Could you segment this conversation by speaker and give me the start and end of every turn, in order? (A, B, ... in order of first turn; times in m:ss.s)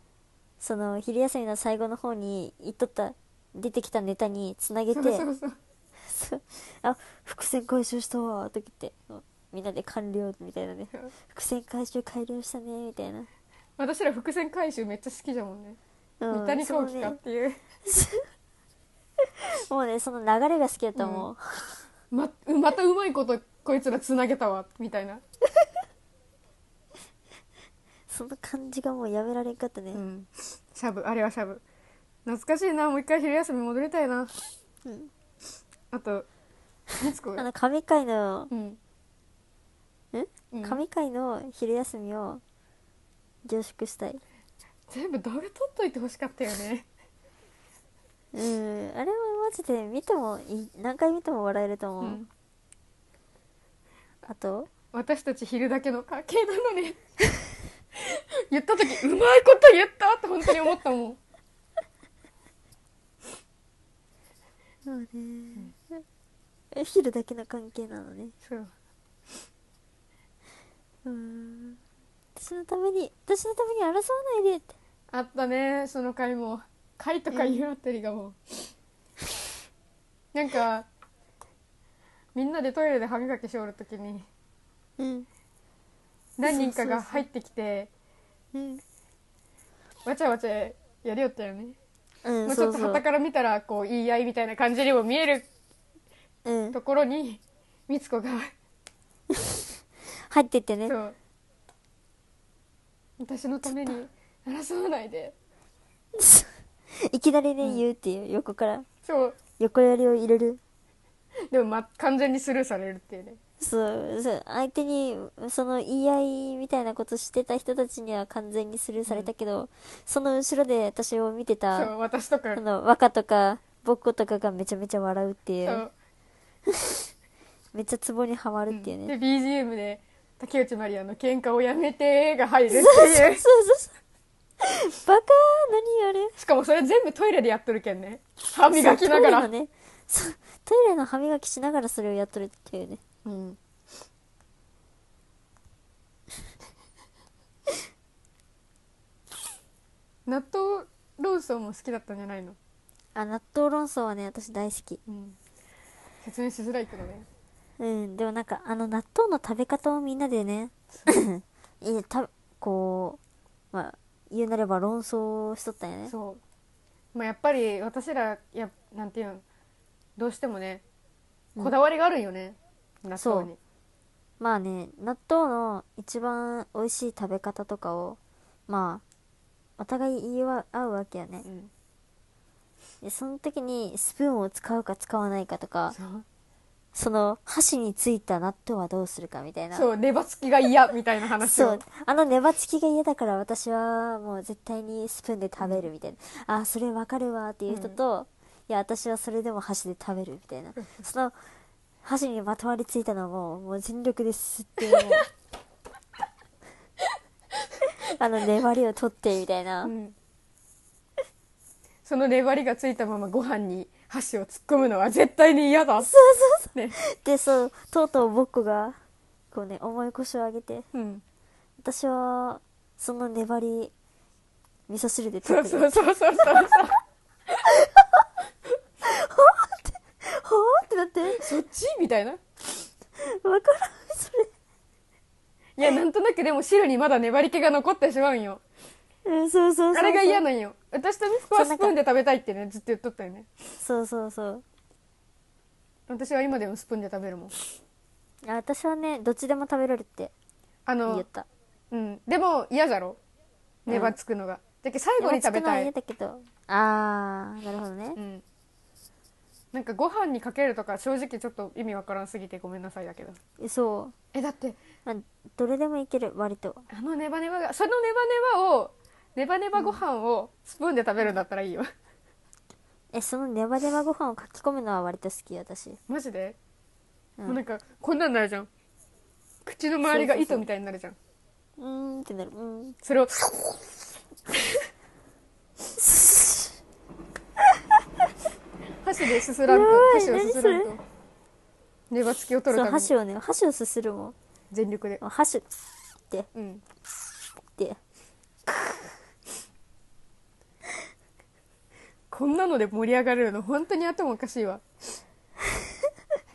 0:00.6-0:05.2 A
0:04.9-0:05.6 B
0:06.0-0:13.3 A
0:13.8-0:15.8 B
0:16.2-0:17.2 A
0:16.3-0:17.6 B
0:17.8-0:18.2 A
0:19.2-0:21.8 A
0:21.0-0:21.3 B
0:22.1-0:25.2 B
0:28.1-0:30.0 A
0:29.9-0:31.6 B
0:32.2-0:34.3 B
0:34.8-0:35.1 A
0:35.9-0:36.3 B
0:37.0-0:37.4 B
0:37.4-0:38.5 A
0:38.5-0:38.8 B
0:40.1-0:42.4 A
0:40.5-0:40.8 B
0:43.4-0:44.2 A
0:44.9-0:46.9 B
0:48.3-0:52.2 A
0:52.0-0:52.3 B
0:54.2-0:54.7 A
0:54.9-0:57.0 B
0:57.9-1:01.2 B
1:04.8-1:06.0 A
1:06.7-1:08.3 A
1:08.4-1:08.7 B
1:11.0-1:11.8 A
1:12.4-1:14.7 A
1:15.1-1:18.7 B
1:17.3-1:17.6 A
1:20.3-1:20.9 B
1:22.3-1:24.3 B
1:25.0-1:25.3 A
1:26.4-1:27.9 B
1:26.4-1:27.2 A
1:28.5-1:28.8 A
1:30.0-1:31.8 B
1:32.2-1:33.0 A
1:32.4-1:35.5 B
1:36.4-1:36.8 A
1:36.7-1:38.5 B
1:39.3-1:39.6 A
1:40.3-1:41.0 A
1:40.8-1:41.1 B
1:43.2-1:45.3 B
1:46.2-1:48.9 A
1:49.0-1:49.4 B
1:49.6-1:50.6 A
1:51.5-1:53.4 B
1:53.6-2:01.9 A
2:01.7-2:02.6 B
2:02.5-2:05.8 A
2:05.6-2:05.9 B
2:06.7-2:07.0 A
2:07.7-2:09.1 A
2:08.7-2:13.4 B
2:12.7-2:13.9 A
2:14.6-2:16.3 A
2:16.4-2:19.5 B
2:18.7-2:23.0 A
2:23.2-2:23.6 B
2:30.2-2:32.6 B
2:33.1-2:35.0 A
2:35.1-2:35.4 B
2:36.2-2:37.2 B
2:37.8-2:43.2 A
2:43.7-2:46.1 A
2:46.1-2:46.4 B
2:47.1-2:49.4 B
2:50.2-2:50.8 B
2:51.6-2:53.6 B
2:53.2-2:53.5 A
2:54.4-2:59.0 A
2:59.8-3:01.4 A
3:01.4-3:01.7 B
3:03.0-3:06.0 A
3:05.9-3:06.2 B
3:06.9-3:09.9 A
3:09.7-3:11.8 B
3:11.4-3:21.3 A
3:15.6-3:15.9 B
3:17.7-3:18.0 B
3:22.0-3:25.3 A
3:24.9-3:25.2 B
3:28.0-3:29.9 A
3:29.8-3:30.1 B
3:32.0-3:36.1 B
3:36.0-3:39.0 A
3:39.5-3:40.8 A
3:40.9-3:41.2 B
3:41.8-3:43.9 A
3:44.9-3:46.8 A
3:45.4-3:47.0 B
3:47.6-3:48.3 A
3:49.0-3:51.5 A
3:51.3-3:52.4 B
3:53.2-3:54.5 A
3:55.8-3:58.6 B
3:59.2-4:00.4 A
3:59.9-4:03.5 B
4:01.5-4:01.9 A
4:03.8-4:04.6 A
4:06.1-4:07.5 B
4:08.4-4:10.3 A
4:10.8-4:11.2 B
4:11.1-4:11.5 A
4:11.9-4:13.2 B
4:13.8-4:15.9 B
4:13.9-4:14.1 A
4:15.2-4:18.2 A
4:18.2-4:18.4 B
4:19.7-4:23.4 B
4:23.6-4:24.1 A
4:24.3-4:24.8 B
4:25.0-4:26.8 A
4:26.9-4:31.9 B
4:29.8-4:30.0 A
4:33.1-4:36.0 A
4:36.1-4:36.6 B
4:37.4-4:38.7 B
4:39.6-4:41.2 B
4:40.0-4:40.6 A
4:41.8-4:43.0 A
4:43.0-4:43.5 B
4:46.0-4:46.8 A
4:49.0-4:51.0 B
4:49.7-4:50.9 A
4:52.1-4:53.1 B
4:52.7-4:54.3 A
4:54.7-4:55.2 B
4:55.2-4:55.6 A
4:56.5-4:56.8 B
4:58.7-4:59.0 A
5:02.3-5:04.8 B
5:05.6-5:05.9 A